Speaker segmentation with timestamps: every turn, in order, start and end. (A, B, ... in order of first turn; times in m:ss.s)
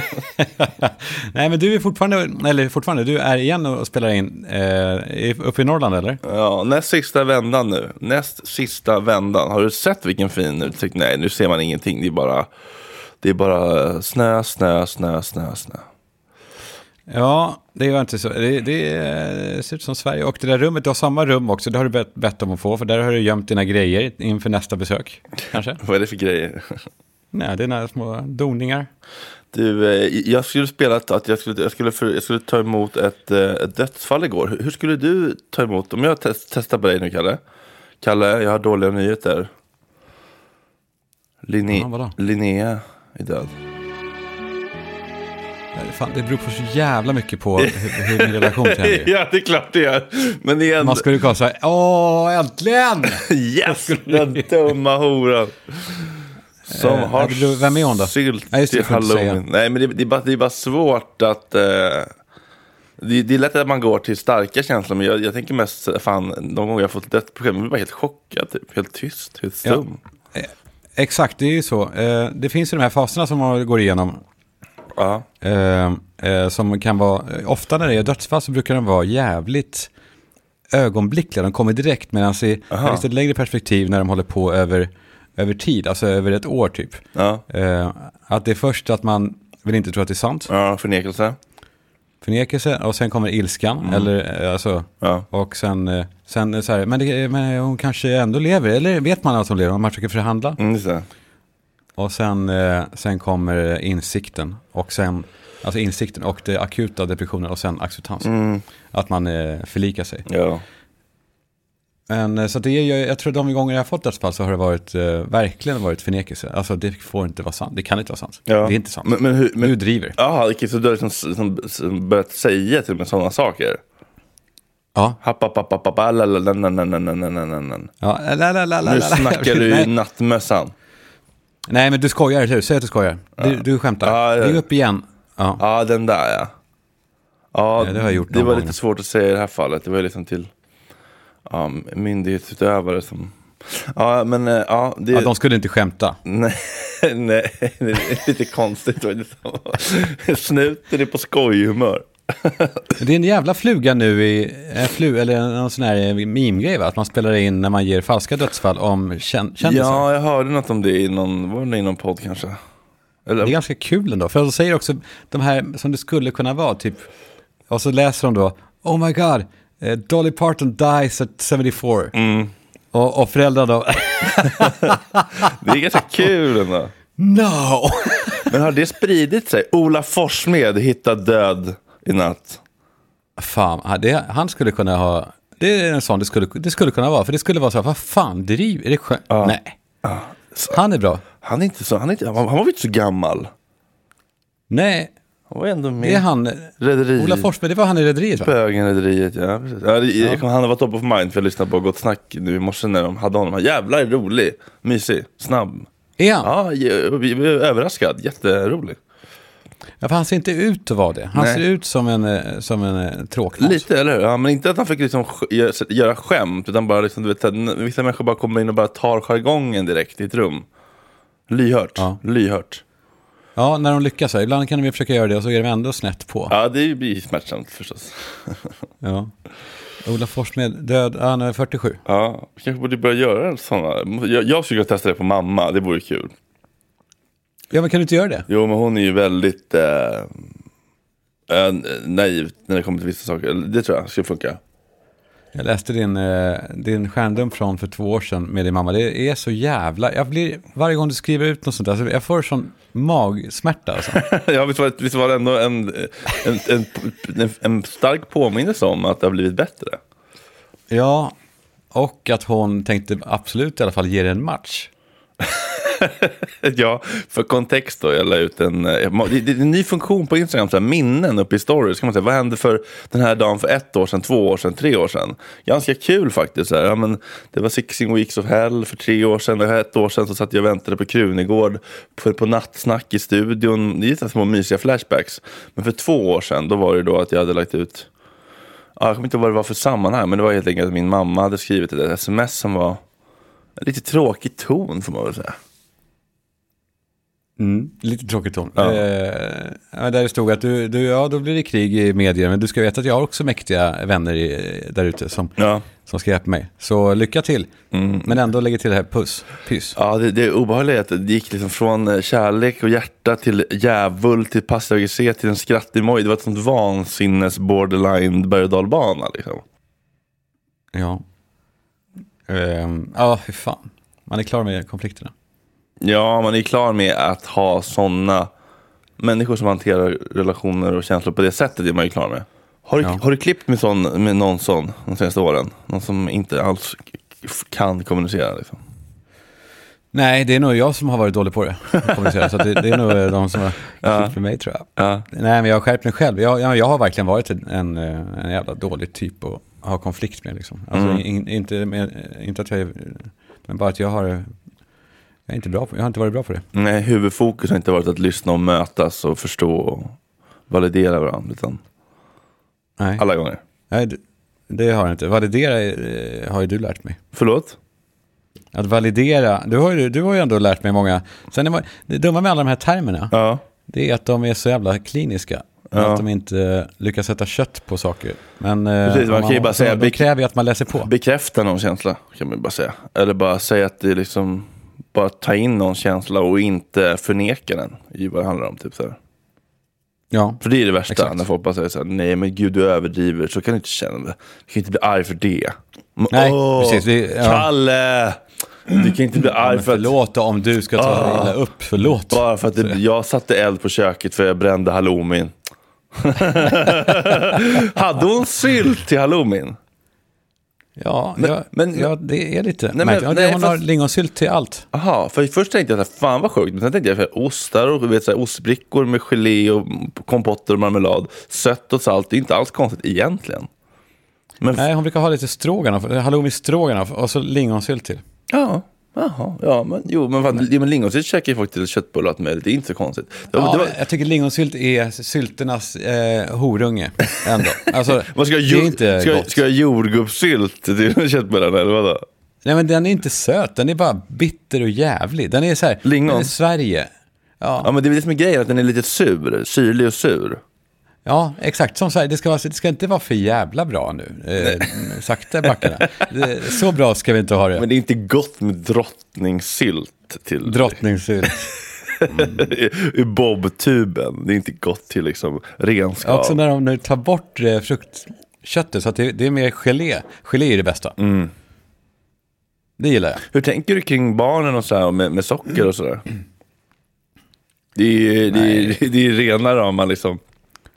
0:00.6-0:06.2 A
0:06.2-0:12.5 B
0:13.2-0:15.8 B
0:17.1-0:25.8 A
0:25.8-0:26.6 B
0:27.3-0:28.9 A
0:29.5-0:37.4 B
0:38.0-0:39.5 B
0:41.5-0:43.6 B
0:41.7-0:42.2 A
0:45.8-0:49.1 A
0:47.6-0:51.1 B
0:50.8-0:54.5 A
0:53.0-1:02.1 B
0:56.7-0:59.4 A
1:03.0-1:10.0 B
1:10.3-1:14.2 A
1:15.0-1:15.2 B
1:15.4-1:19.9 A
1:20.7-1:30.5 A
1:22.7-1:23.0 B
1:27.2-1:27.4 B
1:30.5-1:31.4 B
1:32.2-1:40.6 A
1:33.8-1:34.1 B
1:40.6-1:41.1 B
1:42.0-1:48.3 A
1:48.2-1:48.6 B
1:48.9-1:50.3 A
1:50.3-1:50.6 B
1:52.1-2:00.2 A
1:58.5-2:03.8 B
2:05.2-2:07.9 B
2:08.0-2:09.9 A
2:08.8-2:10.7 B
2:11.7-2:15.6 A
2:13.4-2:14.6 B
2:15.6-2:16.5 B
2:17.5-2:20.5 B
2:17.8-2:18.8 A
2:21.5-2:25.3 B
2:25.1-2:26.2 A
2:26.3-2:32.8 B
2:33.0-2:40.0 A
2:39.6-2:42.6 B
2:43.3-2:43.6 B
2:43.4-2:47.1 A
2:47.7-2:52.1 A
2:52.2-2:52.5 B
2:52.9-2:55.2 A
2:55.6-2:56.9 B
2:57.2-2:58.5 A
2:58.5-3:02.6 B
3:03.4-3:09.8 A
3:09.3-3:10.8 B
3:10.7-3:11.2 A
3:11.4-3:13.5 B
3:14.7-3:15.1 A
3:15.5-3:16.3 B
3:16.0-3:18.5 A
3:16.8-3:17.5 B
3:18.4-3:25.9 B
3:26.2-3:26.5 A
3:26.4-3:29.0 B
3:30.0-3:33.8 A
3:31.4-3:31.6 B
3:33.6-3:40.6 B
3:41.5-3:42.8 B
3:43.6-3:46.5 A
3:46.5-3:48.7 B
3:49.0-3:49.3 A
3:50.0-3:52.0 A
3:52.0-3:56.3 B
3:57.7-3:58.4 A
3:58.5-4:00.3 B
4:01.5-4:04.6 B
4:05.5-4:14.2 A
4:14.1-4:20.0 B
4:20.9-4:21.3 A
4:21.9-4:24.9 A
4:25.7-4:48.1 B
4:49.0-4:53.0 B
4:53.8-4:55.6 B
4:57.6-5:07.7 A
4:58.8-4:59.0 B
5:05.6-5:05.9 B
5:07.9-5:08.3 B
5:08.2-5:10.0 A
5:10.0-5:19.6 B
5:20.9-5:21.2 A
5:22.5-5:25.3 A
5:26.0-5:28.5 B
5:29.2-5:38.8 B
5:40.1-5:54.5 A
5:44.0-5:44.4 B
5:45.0-5:45.2 B
5:50.9-5:51.2 B
5:55.5-5:56.6 A
5:56.7-6:00.2 B
6:00.7-6:01.8 B
6:03.0-6:03.2 A
6:03.2-6:03.6 B
6:03.9-6:07.2 A
6:07.3-6:07.8 B
6:08.7-6:13.3 A
6:13.3-6:13.6 B
6:13.9-6:21.1 A
6:15.9-6:16.2 B
6:19.0-6:20.3 B
6:21.0-6:29.2 B
6:30.3-6:31.4 A
6:30.6-6:40.1 B
6:36.3-6:37.7 A
6:39.6-6:43.0 A
6:41.0-6:45.5 B
6:46.2-6:49.8 B
6:51.0-6:54.8 A
6:51.4-6:52.1 B
6:52.9-6:53.8 B
6:54.9-7:03.7 B
7:04.6-7:04.9 B
7:04.7-7:08.2 A
7:08.5-7:14.0 B
7:13.6-7:19.6 A
7:18.1-7:22.2 B
7:22.6-7:27.9 A
7:26.0-7:26.5 B
7:27.8-7:30.6 B
7:31.2-7:37.8 A
7:34.6-7:34.9 B
7:37.8-7:41.6 B
7:40.6-7:41.7 A
7:42.2-7:46.6 B
7:46.2-7:51.2 A
7:51.2-7:51.5 B
7:53.0-7:53.4 A
7:53.5-7:56.2 B
7:58.0-8:00.4 B
7:58.5-7:59.0 A